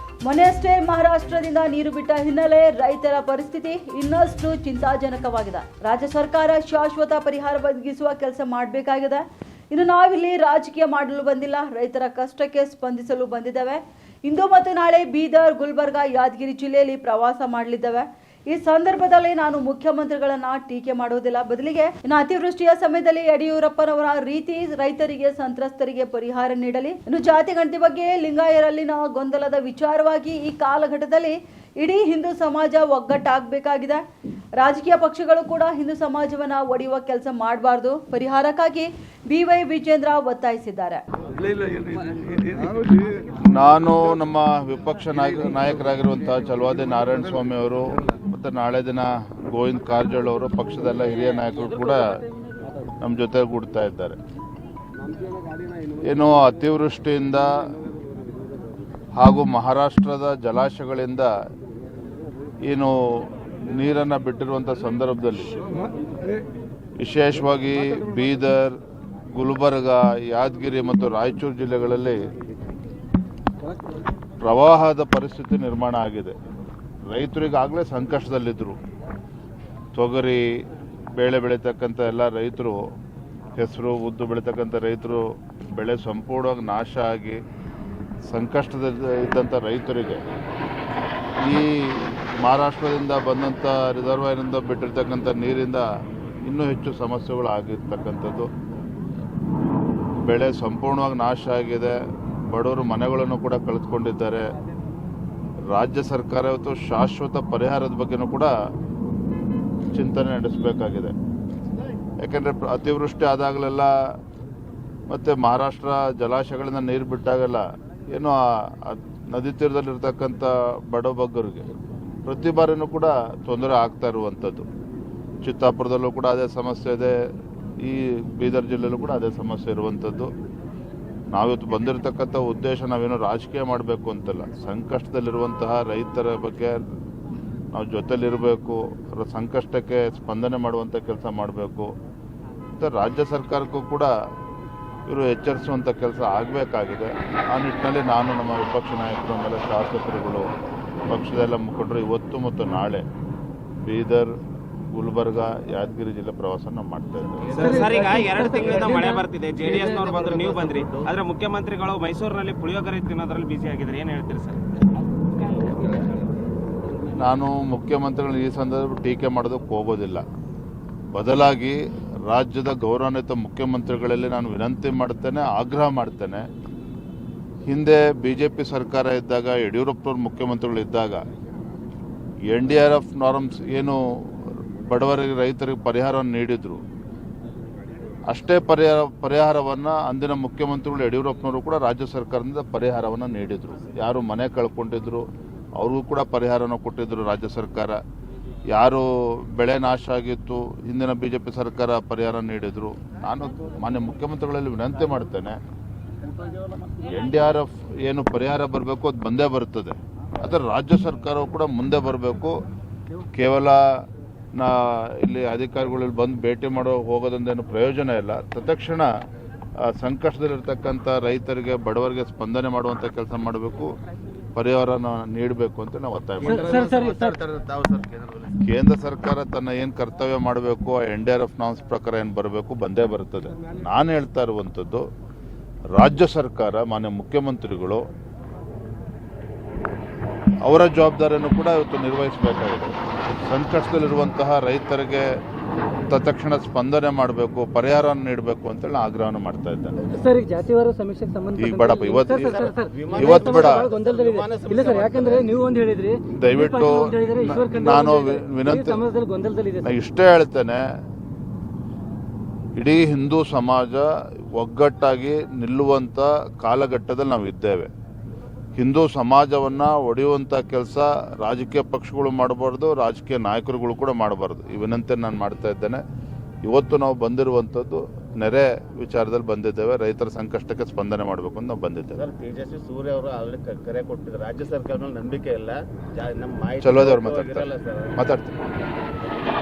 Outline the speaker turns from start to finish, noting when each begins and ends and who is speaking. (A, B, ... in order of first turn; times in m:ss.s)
0:00.2-0:34.0 A
0:34.6-0:41.0 A
0:43.4-0:52.2 B
0:53.0-0:54.2 B
0:56.0-0:57.5 B
0:59.2-1:01.3 B
1:02.6-1:05.5 B
1:07.0-1:08.8 B
1:09.3-1:12.2 B
1:14.4-1:16.4 B
1:17.1-1:18.8 B
1:19.9-1:20.4 B
1:21.2-1:22.8 B
1:23.6-1:27.4 B
1:28.3-1:30.2 B
1:31.4-1:35.8 B
1:36.4-1:38.5 B
1:40.2-1:42.0 B
1:42.5-1:44.5 B
1:45.7-1:48.5 B
1:50.0-1:51.1 B
1:52.2-1:53.9 B
1:55.1-2:01.7 B
2:02.2-2:04.7 B
2:05.4-2:07.2 B
2:07.8-2:10.3 B
2:11.3-2:16.8 B
2:17.7-2:21.9 B
2:22.8-2:24.1 B
2:25.1-2:30.5 B
2:31.1-2:33.0 B
2:33.8-2:34.3 B
2:34.9-2:37.6 B
2:37.4-2:38.9 C
2:37.6-2:44.6 D
2:37.6-2:39.2 E
2:39.6-2:41.1 C
2:47.2-2:50.2 B
2:51.1-2:56.4 B
2:57.7-3:01.2 B
3:02.5-3:06.8 B
3:08.3-3:15.2 B
3:15.8-3:18.0 B
3:18.7-3:25.6 B
3:27.0-3:32.6 B
3:33.3-3:33.8 B
3:34.6-3:39.1 B
3:39.8-3:43.9 B
3:44.5-3:46.8 B
3:46.4-3:48.6 C
3:46.4-3:47.4 E
3:48.6-3:55.0 B
3:55.9-3:58.0 B
4:00.6-4:02.9 B
4:03.5-4:05.3 B
4:06.1-4:10.0 B
4:10.1-4:19.9 E
4:11.6-4:13.9 B
4:12.3-4:15.6 C
4:16.3-4:19.0 B
4:19.8-4:20.8 B
4:22.8-4:27.9 B
4:28.8-4:36.0 B
4:36.6-4:42.2 B
4:42.2-4:48.2 C
4:46.8-4:48.6 B